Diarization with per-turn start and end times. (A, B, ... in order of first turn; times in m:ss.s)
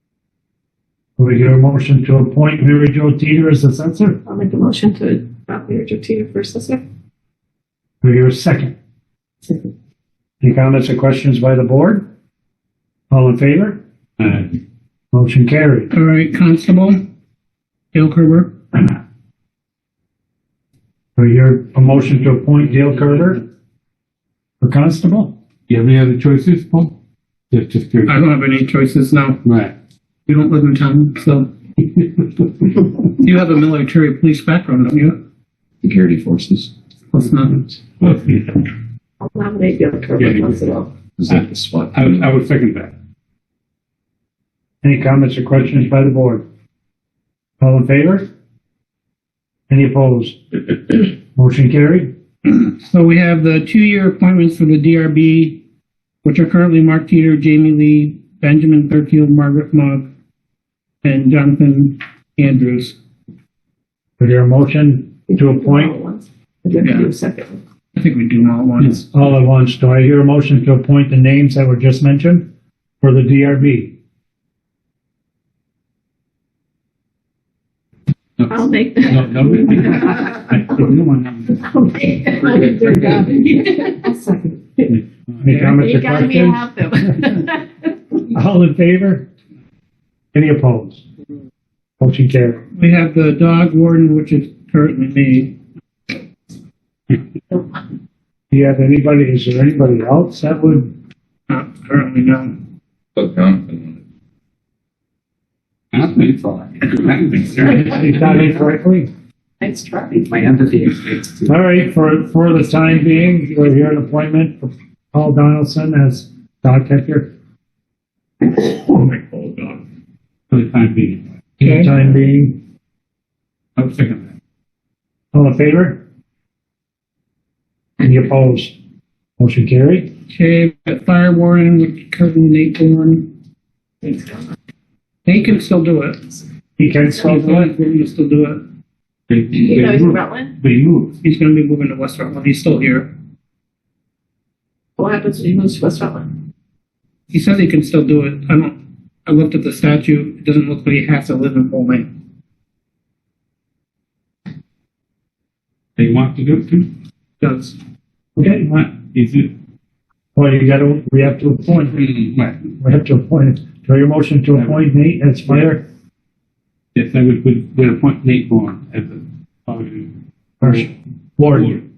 0:01.2-0:04.2 A
0:04.3-0:06.8 B
0:08.0-0:08.8 A
0:10.4-0:12.0 A
0:13.1-0:13.8 A
0:14.2-0:14.6 C
0:15.1-0:15.9 A
0:15.9-0:17.0 D
0:17.9-0:18.5 D
0:21.2-0:23.4 A
0:22.3-0:23.4 C
0:24.6-0:25.4 A
0:25.7-0:26.9 C
0:27.5-0:28.2 C
0:28.1-0:29.4 D
0:29.4-0:29.7 C
0:30.3-0:31.5 D
0:31.9-0:32.4 C
0:33.2-0:35.2 D
0:35.8-0:36.7 E
0:37.1-0:37.8 D
0:38.0-0:38.6 C
0:39.2-0:40.9 B
0:40.2-0:40.6 C
0:41.2-0:42.3 E
0:41.2-0:42.9 C
0:44.8-0:46.4 A
0:47.6-0:48.3 A
0:49.7-0:52.1 A
0:52.5-0:55.6 D
0:56.2-1:00.1 D
1:01.0-1:03.0 D
1:04.2-1:06.0 A
1:05.3-1:07.6 B
1:06.8-1:07.1 D
1:08.0-1:09.0 D
1:08.8-1:12.5 A
1:13.0-1:13.9 A
1:18.4-1:21.7 C
1:18.5-1:20.4 B
1:21.6-1:25.0 B
1:22.6-1:23.0 C
1:24.9-1:25.4 C
1:25.4-1:26.7 A
1:25.5-1:25.7 D
1:25.6-1:27.9 B
1:28.3-1:29.3 A
1:30.3-1:31.0 A
1:32.0-1:32.6 A
1:32.8-1:35.6 D
1:38.5-1:40.9 A
1:41.5-1:42.6 D
1:43.2-1:44.0 E
1:45.9-1:48.3 C
1:47.6-1:49.1 A
1:49.6-1:50.4 B
1:50.3-1:51.5 C
1:51.4-1:57.3 A
1:58.6-1:59.8 C
2:00.5-2:01.2 C
2:01.6-2:02.6 A
2:01.6-2:01.9 D
2:03.8-2:04.3 C
2:05.3-2:06.0 A
2:08.0-2:08.8 A
2:09.4-2:10.1 A
2:10.3-2:13.3 D
2:14.0-2:14.4 B
2:15.2-2:16.2 D
2:16.8-2:17.7 A
2:17.1-2:18.6 D
2:19.3-2:21.2 C
2:19.6-2:20.5 B
2:21.2-2:23.1 D
2:25.0-2:26.3 B
2:27.3-2:32.1 D
2:36.0-2:36.9 C
2:37.4-2:37.8 D
2:38.4-2:38.7 A
2:38.7-2:39.5 C
2:40.4-2:42.1 A
2:41.9-2:42.6 C
2:42.8-2:45.8 A
2:44.6-2:44.8 C
2:45.5-2:45.7 C
2:47.0-2:50.9 C
2:50.6-2:51.8 A
2:51.5-2:51.8 C